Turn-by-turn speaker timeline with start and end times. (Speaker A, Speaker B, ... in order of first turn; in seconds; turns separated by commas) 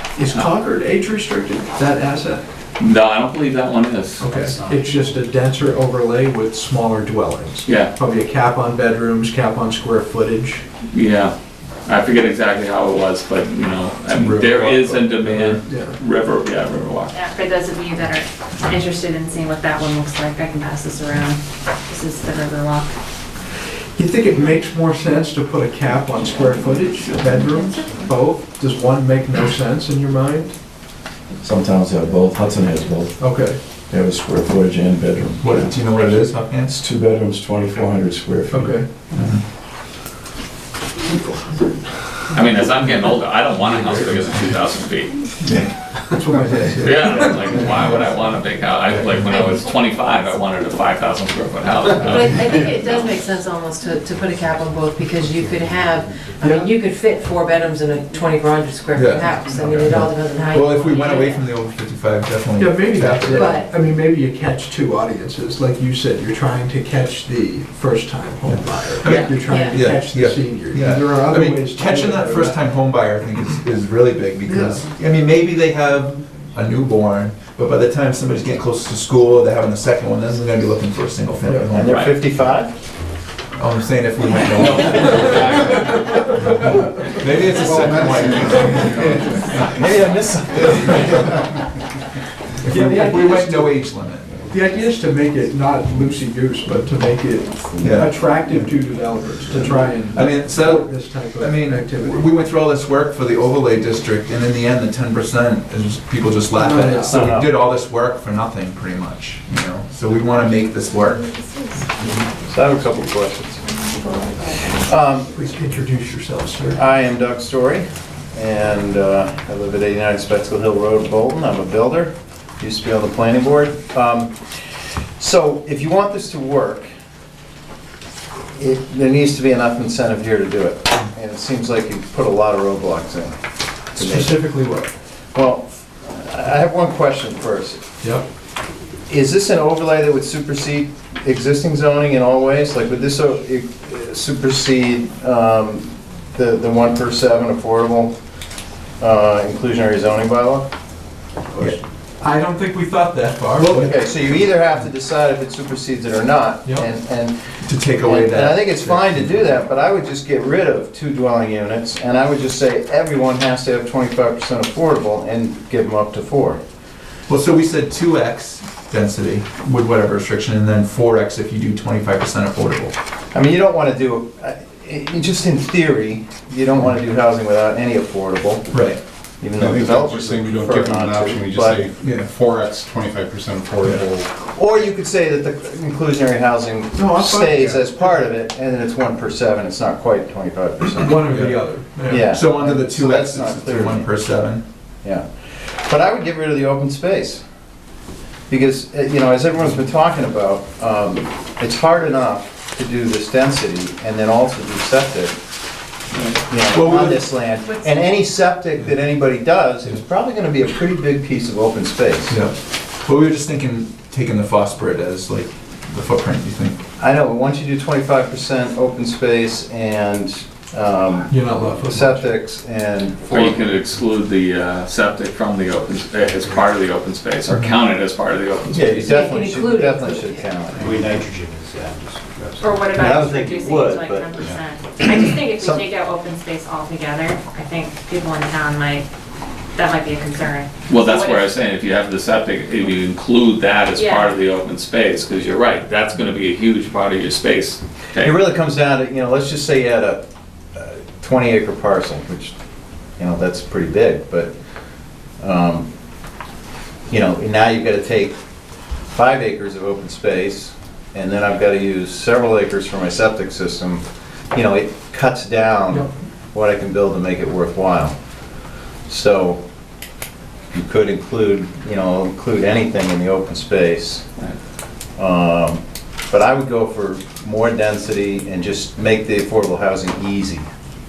Speaker A: 0.1-2.4, Speaker B: 2.8-4.3, Speaker A: 4.2-10.6, Speaker B: 7.6-7.9, Speaker B: 10.9-11.3, Speaker B: 11.8-17.1, Speaker C: 14.2-15.6, Speaker A: 15.6-16.0, Speaker D: 17.1-22.9, Speaker A: 23.9-30.5, Speaker E: 27.1-28.0, Speaker F: 31.4-33.2, Speaker A: 33.2-33.6, Speaker F: 33.9-38.8, Speaker C: 35.4-36.8, Speaker A: 38.5-38.9, Speaker C: 39.1-39.4, Speaker B: 42.3-45.2, Speaker A: 46.1-47.7, Speaker C: 46.5-46.7, Speaker B: 46.8-53.1, Speaker E: 49.3-49.7, Speaker E: 51.9-61.5, Speaker G: 52.3-53.5, Speaker G: 54.2-56.7, Speaker A: 56.4-56.7, Speaker G: 57.4-58.3, Speaker C: 58.9-63.6, Speaker G: 59.1-59.6, Speaker G: 60.2-61.1, Speaker A: 62.6-72.6, Speaker E: 63.2-63.7, Speaker C: 68.4-82.4, Speaker B: 69.0-69.4, Speaker E: 69.4-69.8, Speaker A: 74.5-74.9, Speaker A: 81.4-81.7, Speaker H: 81.7-82.7, Speaker C: 83.5-85.6, Speaker B: 84.6-85.8, Speaker C: 86.4-90.0, Speaker I: 87.6-89.8, Speaker H: 89.0-91.5, Speaker C: 90.5-91.3, Speaker C: 92.6-94.3, Speaker A: 92.7-93.8, Speaker A: 94.5-102.3, Speaker G: 97.5-97.8, Speaker C: 97.8-98.6, Speaker C: 99.6-111.3, Speaker A: 106.5-107.3, Speaker H: 107.0-107.5, Speaker G: 110.3-115.2, Speaker H: 112.5-113.6, Speaker E: 113.8-114.6, Speaker H: 114.6-115.3, Speaker A: 115.3-116.8, Speaker H: 116.7-124.4, Speaker H: 125.2-126.9, Speaker H: 128.6-133.3, Speaker H: 133.9-134.4, Speaker A: 134.0-134.9, Speaker H: 135.3-137.8, Speaker H: 139.1-148.2, Speaker H: 149.0-150.7, Speaker A: 151.5-153.9, Speaker H: 153.6-157.3, Speaker C: 157.6-159.5, Speaker H: 158.0-166.6, Speaker C: 167.3-172.9, Speaker H: 173.3-178.8, Speaker C: 178.7-179.0, Speaker H: 179.4-181.8, Speaker I: 179.5-184.3, Speaker C: 182.0-182.3, Speaker H: 184.4-191.4, Speaker A: 186.9-188.2, Speaker I: 187.5-187.9, Speaker A: 190.9-192.2, Speaker C: 191.3-191.6, Speaker H: 192.0-194.1, Speaker C: 192.2-194.6, Speaker H: 195.0-197.4, Speaker H: 198.5-205.3, Speaker H: 206.5-212.4, Speaker C: 206.7-207.3, Speaker D: 207.7-208.0, Speaker C: 212.3-216.8, Speaker H: 217.0-223.6, Speaker A: 221.3-222.3, Speaker B: 223.3-229.2, Speaker C: 227.5-227.8, Speaker H: 228.7-231.3, Speaker E: 228.9-230.7, Speaker G: 230.8-232.2, Speaker D: 232.6-239.1, Speaker H: 232.9-234.3, Speaker H: 235.5-235.9, Speaker D: 239.7-241.5, Speaker B: 240.9-248.3, Speaker D: 243.9-244.3, Speaker H: 248.2-250.2, Speaker H: 250.7-252.5, Speaker H: 253.2-254.5, Speaker H: 255.4-255.9, Speaker H: 257.1-258.4, Speaker H: 259.1-268.1, Speaker H: 269.1-269.6, Speaker H: 270.7-274.2, Speaker H: 275.2-280.7